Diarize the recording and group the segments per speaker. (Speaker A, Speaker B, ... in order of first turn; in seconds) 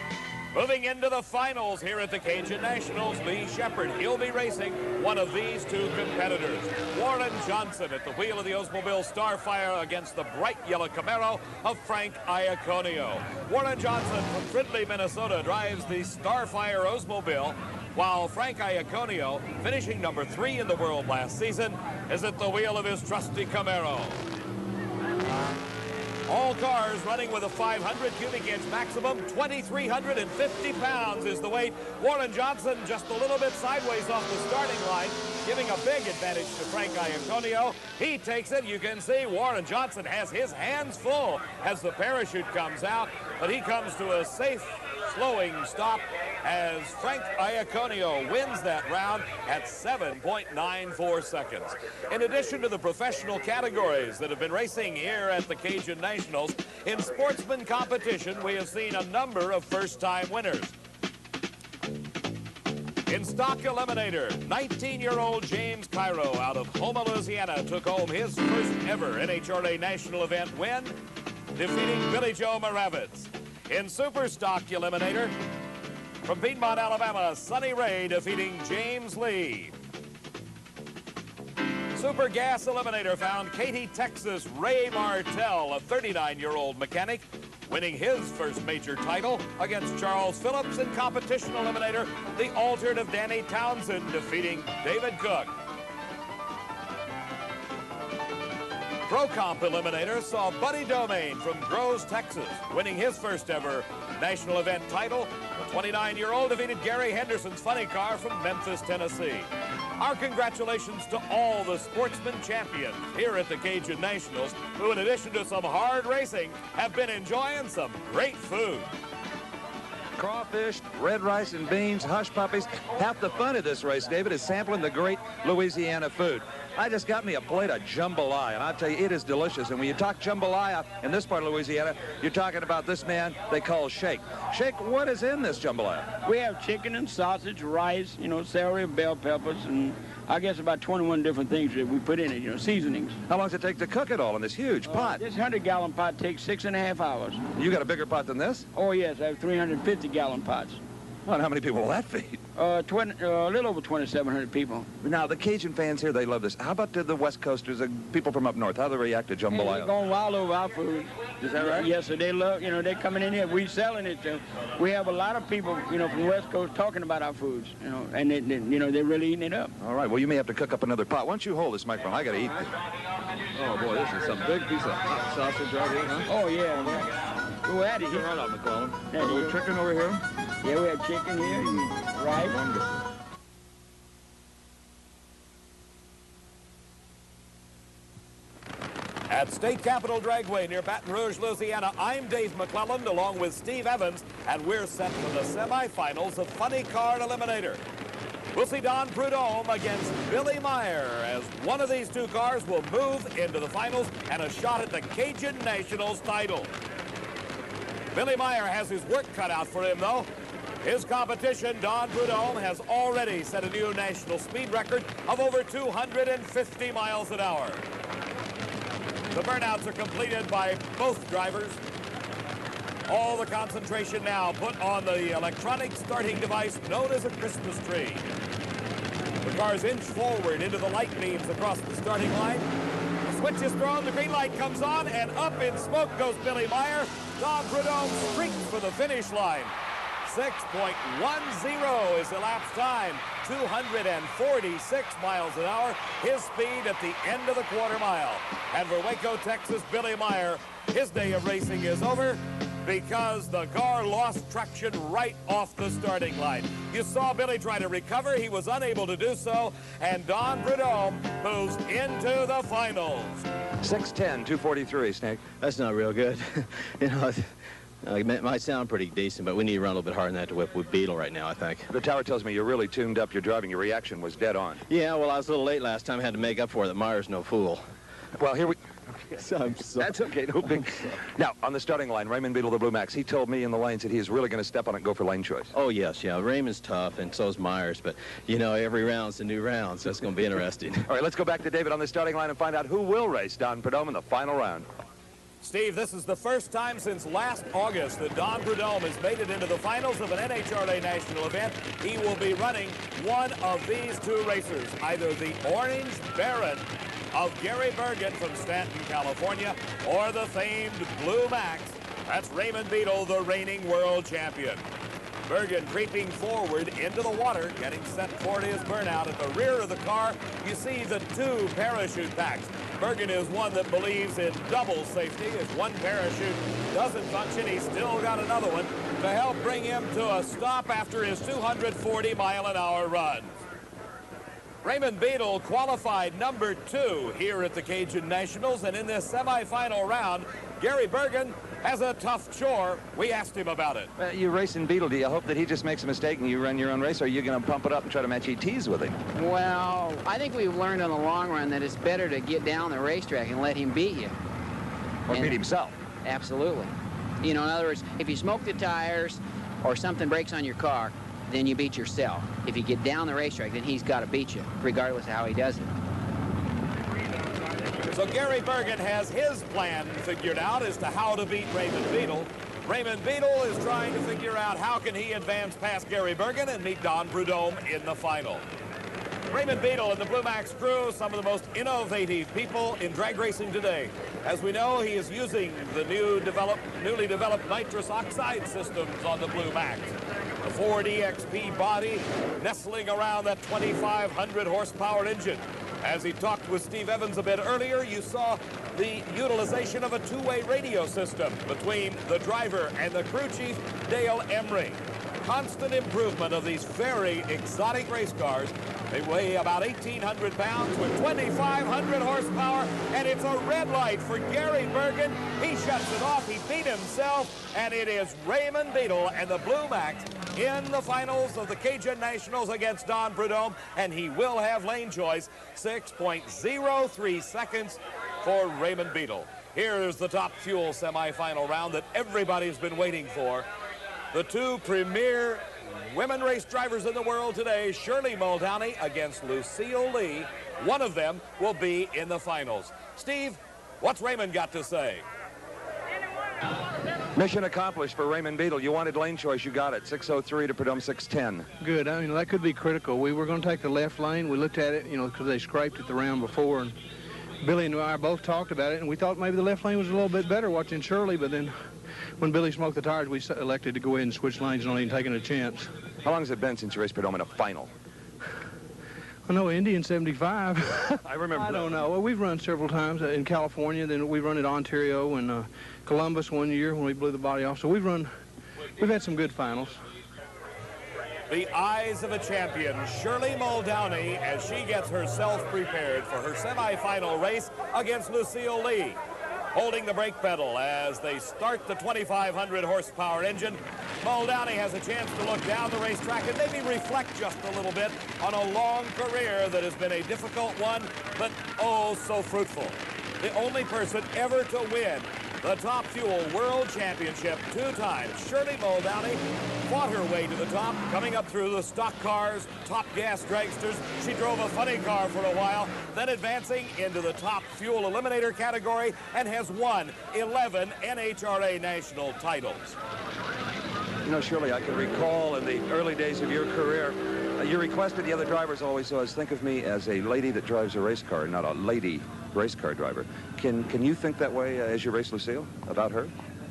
Speaker A: 0.5-24.2, 26.3-60.7, 63.1-71.0, 71.5-75.3, 76.2-79.7, 81.9-95.5, 99.1-118.9, 189.3-197.8, 198.5-206.7, 208.1-210.3, 210.8-217.8, 219.3-221.8, 223.1-228.2, 229.4-232.7, 233.3-239.7, 240.2-263.4, 295.6-314.8, 315.5-333.6, 334.8-344.1, 368.1-378.6, 379.5-433.7, 434.3-445.2, 481.5-489.2, 489.7-523.0
Speaker B: 120.2-136.1, 143.3-145.2, 147.6-148.7, 151.3-152.4, 155.0-159.9, 161.4-161.9, 169.8-172.7, 173.5-176.3, 178.1-180.2, 263.8-265.4, 271.9-274.8, 278.4-278.8, 280.0-285.7, 291.1-294.9, 344.2-349.2, 355.3-355.9, 447.4-451.7, 466.2-467.9, 471.2-472.0, 524.2-536.3
Speaker C: 136.2-143.1, 144.9-147.4, 148.7-150.8, 152.6-154.9, 159.5-169.7, 176.3-177.1, 177.6-178.3, 179.1-179.6, 180.6-182.6
Speaker D: 265.6-271.9, 274.9-277.8, 279.4-280.1, 285.7-291.1
Speaker E: 349.4-354.3, 355.3-355.6, 356.2-365.9
Speaker F: 451.8-456.9, 457.6-461.7, 462.4-465.9, 469.5-478.3, 479.0-480.0